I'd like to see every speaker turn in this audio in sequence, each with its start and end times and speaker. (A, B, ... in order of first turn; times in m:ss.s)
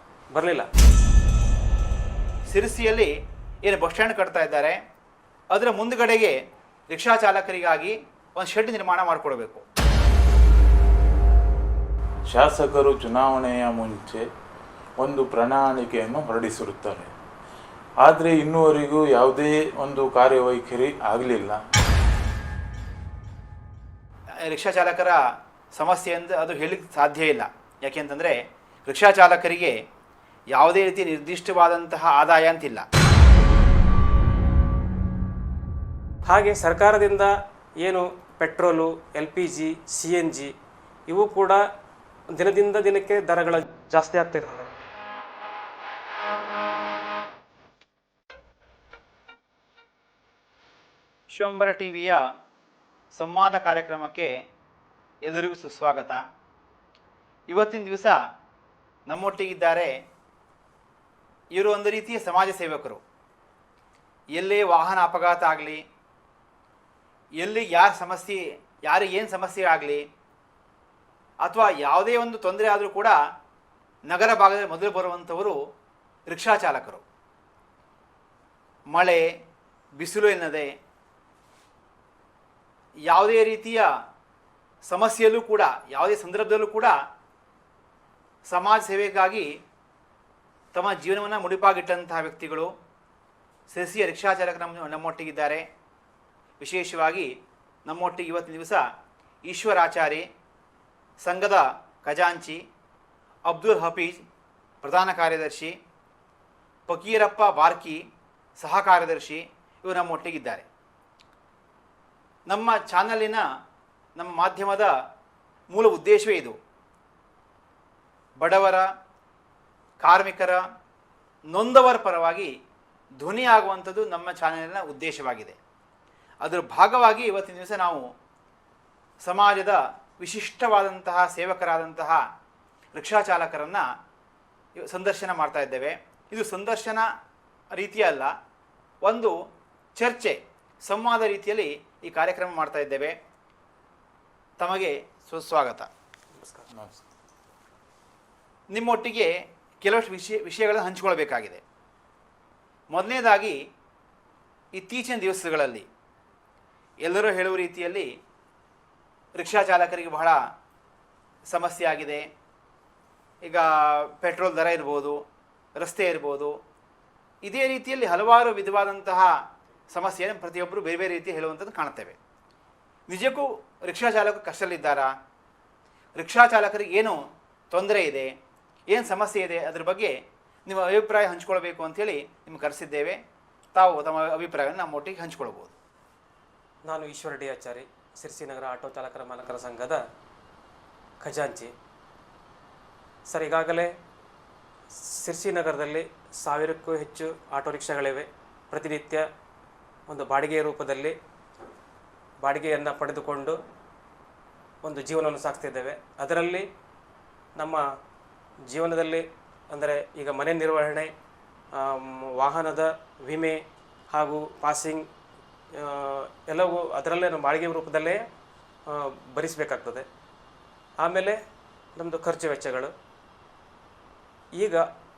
0:00.3-0:00.6 A
0:02.5-0:03.1 B
0:03.6-0:04.8 B
0:05.5-0:06.3 B
0:06.9-0:09.6 B
0:12.3-0:14.2 C
0:15.0-0:17.1 C
0:18.0-0:21.6 C
0:24.4-0:25.2 B
0:25.7-0:28.3 B
0:28.9-0:29.7 B
0:30.5-0:32.8 B
0:36.3-0:37.3 A
0:37.8-0:40.5 A
0:41.1-0:41.6 A
0:42.3-0:44.7 A
0:51.3-0:52.2 B
0:53.1-0:54.3 B
0:55.2-0:56.2 B
0:57.5-0:58.2 B
0:59.1-0:59.9 B
1:01.5-1:03.0 B
1:04.3-1:05.8 B
1:07.4-1:10.0 B
1:11.4-1:13.2 B
1:14.1-1:15.6 B
1:16.3-1:17.0 B
1:18.9-1:19.2 B
1:20.0-1:20.7 B
1:23.1-1:23.9 B
1:24.9-1:26.9 B
1:28.5-1:29.5 B
1:30.7-1:32.7 B
1:33.7-1:35.6 B
1:36.6-1:37.3 B
1:37.8-1:38.8 B
1:39.5-1:40.2 B
1:41.2-1:42.6 B
1:43.5-1:44.2 B
1:44.8-1:45.7 B
1:46.9-1:48.0 B
1:48.6-1:50.6 B
1:52.5-1:53.4 B
1:54.2-1:54.9 B
1:55.7-1:56.5 B
1:58.4-1:58.8 B
2:00.0-2:00.6 B
2:01.5-2:02.5 B
2:03.2-2:05.6 B
2:06.4-2:08.0 B
2:09.2-2:12.2 B
2:12.9-2:13.8 B
2:14.8-2:17.0 B
2:17.8-2:18.3 B
2:19.0-2:19.3 B
2:20.0-2:23.1 B
2:24.6-2:25.9 B
2:26.4-2:26.6 A
2:26.7-2:27.0 C
2:28.7-2:31.6 B
2:32.9-2:33.6 B
2:34.8-2:35.8 B
2:37.0-2:38.1 B
2:39.4-2:40.4 B
2:41.5-2:42.2 B
2:43.5-2:45.2 B
2:45.8-2:46.5 B
2:47.4-2:49.3 B
2:49.9-2:52.2 B
2:53.1-2:55.1 B
2:56.2-2:57.2 B
2:57.7-2:58.3 B
2:58.9-3:00.1 B
3:00.6-3:03.2 B
3:03.7-3:05.8 B
3:06.9-3:10.0 A
3:11.2-3:11.7 A
3:13.3-3:13.9 A
3:15.1-3:19.2 A
3:20.1-3:21.1 A
3:22.4-3:23.6 A
3:24.8-3:26.6 A
3:27.6-3:27.8 A
3:28.7-3:31.1 A
3:31.7-3:33.6 A
3:34.1-3:35.0 A
3:35.7-3:38.2 A
3:38.9-3:40.0 A
3:41.0-3:41.4 A
3:42.0-3:42.9 A
3:44.6-3:44.8 A